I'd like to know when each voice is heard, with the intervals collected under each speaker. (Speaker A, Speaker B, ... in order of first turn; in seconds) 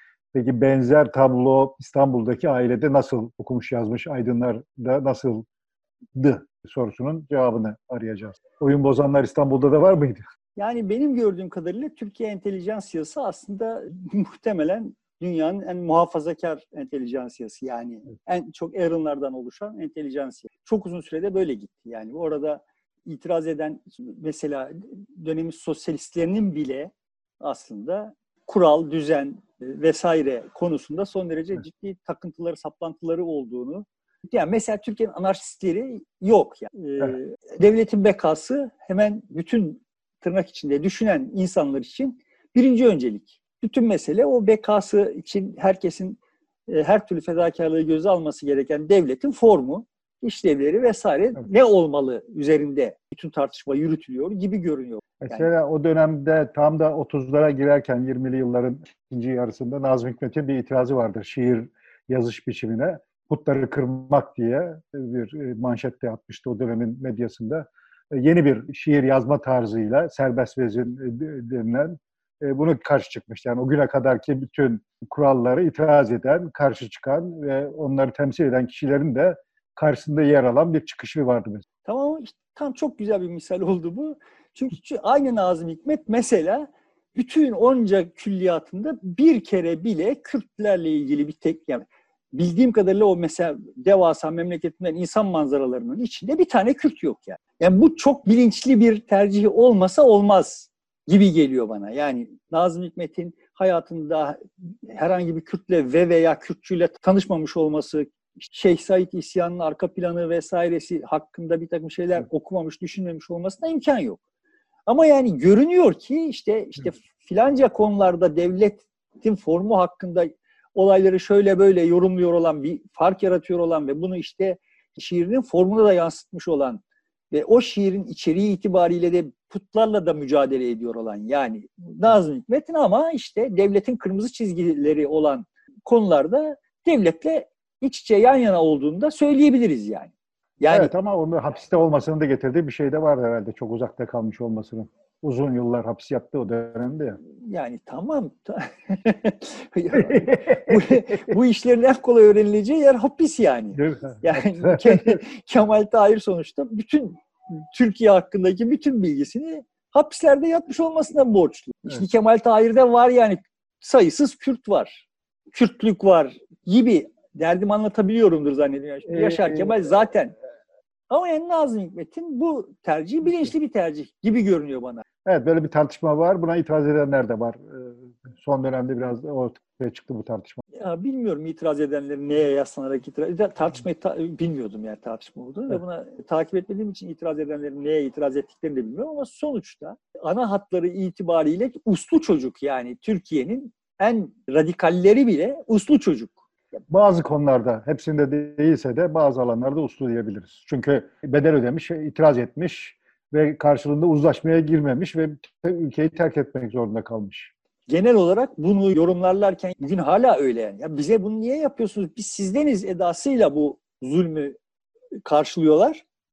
Speaker A: 0.3-5.4, 6.2-10.2, 55.2-81.6, 140.7-147.2, 150.1-150.9, 153.8-155.2, 169.1-169.7, 175.2-180.6, 196.9-207.5
Speaker B: 10.6-55.5, 81.8-114.2, 114.9-126.8, 127.3-140.9, 147.4-170.3, 171.1-175.0, 180.8-196.4, 207.9-214.6, 215.2-216.1